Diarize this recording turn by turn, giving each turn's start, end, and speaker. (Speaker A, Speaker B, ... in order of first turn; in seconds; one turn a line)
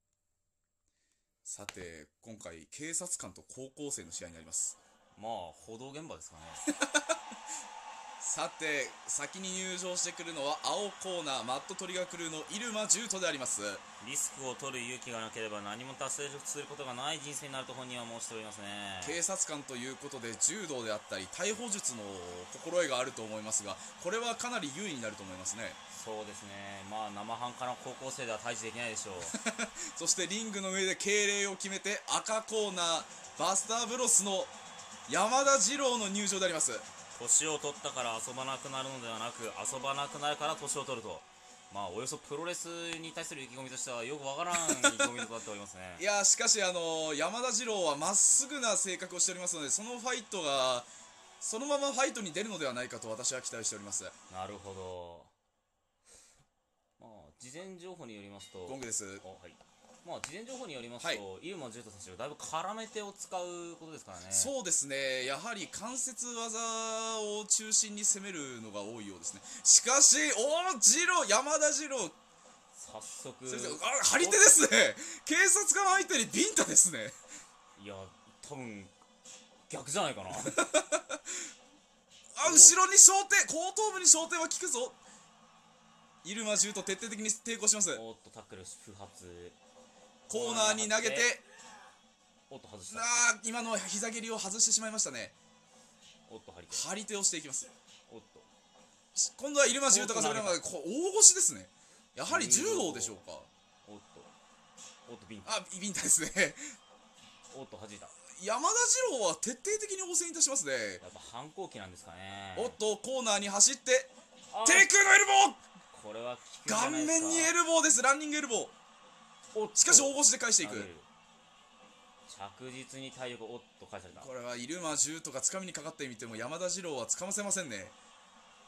Speaker A: 1.4-4.8
Speaker B: 5.2-6.6
Speaker A: 6.8-7.1
Speaker A: 8.2-13.8
Speaker B: 14.0-19.2
Speaker A: 19.0-25.8
Speaker B: 25.9-29.4
Speaker A: 29.3-34.5
Speaker A: 35.1-36.9
Speaker B: 37.1-46.0
Speaker A: 44.5-45.3
Speaker A: 46.0-50.9
Speaker A: 51.4-54.1
Speaker B: 54.3-55.3
Speaker B: 57.0-64.5
Speaker A: 58.7-59.2
Speaker A: 64.3-72.2
Speaker B: 72.7-74.5
Speaker A: 73.5-77.2
Speaker B: 77.8-79.0
Speaker B: 79.7-80.6
Speaker A: 80.5-81.2
Speaker A: 82.4-85.0
Speaker B: 82.4-82.8
Speaker A: 86.2-88.0
Speaker B: 87.9-89.6
Speaker A: 90.3-91.4
Speaker B: 90.3-91.3
Speaker B: 92.5-93.3
Speaker A: 92.9-95.3
Speaker B: 96.3-96.9
Speaker A: 96.7-97.7
Speaker B: 98.1-98.5
Speaker A: 99.2-103.5
Speaker B: 99.9-100.6
Speaker B: 102.3-103.2
Speaker B: 103.9-104.3
Speaker B: 105.1-105.5
Speaker A: 105.5-106.6
Speaker B: 107.5-108.1
Speaker A: 108.4-111.0
Speaker B: 111.0-112.8
Speaker A: 112.6-114.1
Speaker B: 114.5-114.9
Speaker A: 114.6-115.6
Speaker B: 115.9-117.5
Speaker A: 116.7-118.8
Speaker B: 119.5-121.1
Speaker A: 119.8-120.9
Speaker B: 122.3-124.3
Speaker A: 124.2-128.0